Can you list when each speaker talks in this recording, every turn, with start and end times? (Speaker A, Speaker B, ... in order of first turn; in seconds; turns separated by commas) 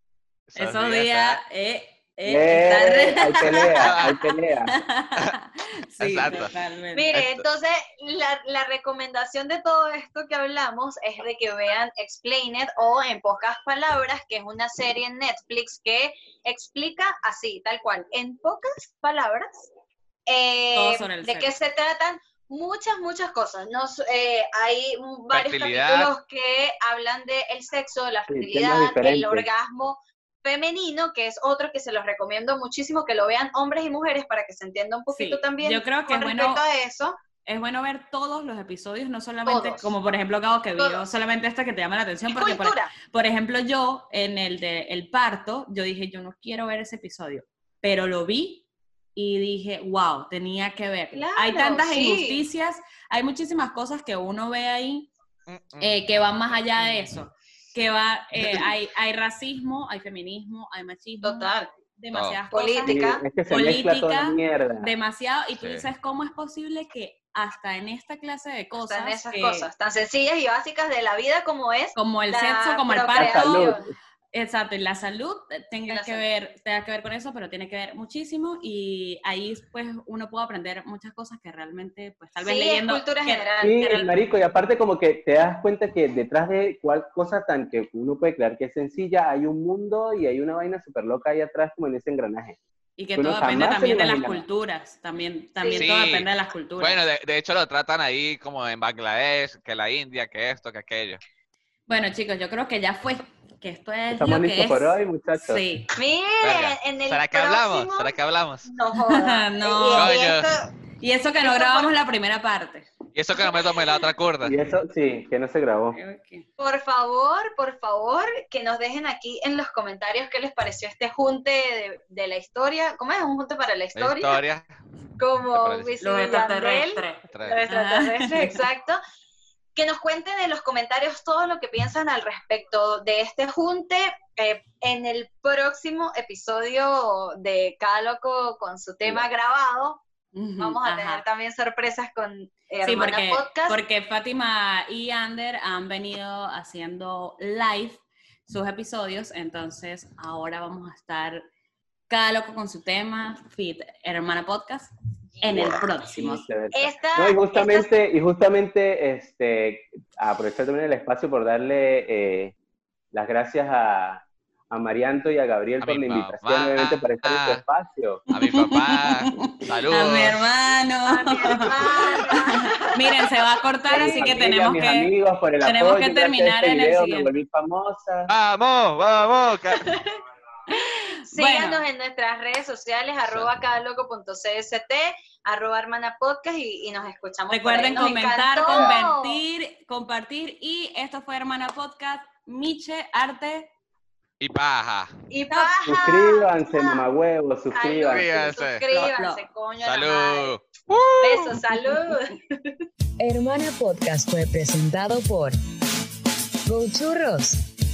Speaker A: 0.5-1.4, Speaker B: 0.6-4.0, Speaker C: 2.2-4.8, Speaker A: 3.8-4.2, Speaker B: 4.7-7.1, Speaker A: 6.0-6.5, Speaker D: 6.9-19.7, Speaker A: 7.1-7.4, Speaker D: 20.3-37.2, Speaker B: 20.7-21.5, Speaker A: 25.3-26.1, Speaker C: 28.3-29.5, Speaker B: 35.1-36.6, Speaker B: 37.5-55.1, Speaker D: 39.5-39.9, Speaker D: 40.8-41.0, Speaker D: 42.3-42.9, Speaker D: 51.1-52.4, Speaker A: 55.5-56.0, Speaker B: 55.8-69.7, Speaker D: 61.2-61.7, Speaker A: 62.1-62.4, Speaker D: 62.5-63.2, Speaker C: 62.8-64.9, Speaker A: 65.6-65.9, Speaker D: 68.8-73.8, Speaker B: 72.0-73.8, Speaker C: 73.1-73.9, Speaker B: 74.3-84.1, Speaker D: 75.9-76.2, Speaker D: 82.4-83.9, Speaker C: 83.6-92.6, Speaker B: 93.0-97.0, Speaker C: 93.2-94.4, Speaker D: 95.6-95.9, Speaker A: 95.8-101.2, Speaker B: 101.9-105.9, Speaker C: 104.1-105.6, Speaker D: 105.9-110.7, Speaker A: 106.4-108.7, Speaker B: 109.1-110.1, Speaker A: 110.0-110.5, Speaker B: 111.0-112.9, Speaker D: 111.4-111.9, Speaker A: 113.1-114.6, Speaker C: 114.4-116.0, Speaker B: 115.9-116.5, Speaker D: 116.6-124.4, Speaker A: 124.0-124.7, Speaker D: 125.2-129.0, Speaker A: 125.5-125.9, Speaker B: 126.0-128.6, Speaker A: 127.3-127.6, Speaker D: 129.7-140.0, Speaker B: 140.3-141.2, Speaker D: 140.6-143.8, Speaker B: 142.8-151.4, Speaker B: 152.1-156.4, Speaker C: 155.5-162.5, Speaker D: 156.7-157.9, Speaker C: 163.1-168.2, Speaker A: 165.8-167.6, Speaker B: 168.3-177.3, Speaker A: 168.3-170.4, Speaker D: 171.1-173.3, Speaker C: 173.9-178.3, Speaker A: 178.3-179.8, Speaker D: 179.8-180.1, Speaker B: 180.7-181.8, Speaker D: 181.3-189.4, Speaker A: 183.2-183.5, Speaker B: 187.5-193.7, Speaker C: 188.7-189.0, Speaker A: 194.4-195.1, Speaker D: 195.3-197.0, Speaker C: 195.8-198.5, Speaker D: 197.7-200.6, Speaker A: 198.1-198.8, Speaker B: 198.9-199.4, Speaker A: 199.8-201.6, Speaker D: 201.2-202.7, Speaker E: 203.2-205.6, Speaker E: 206.7-207.6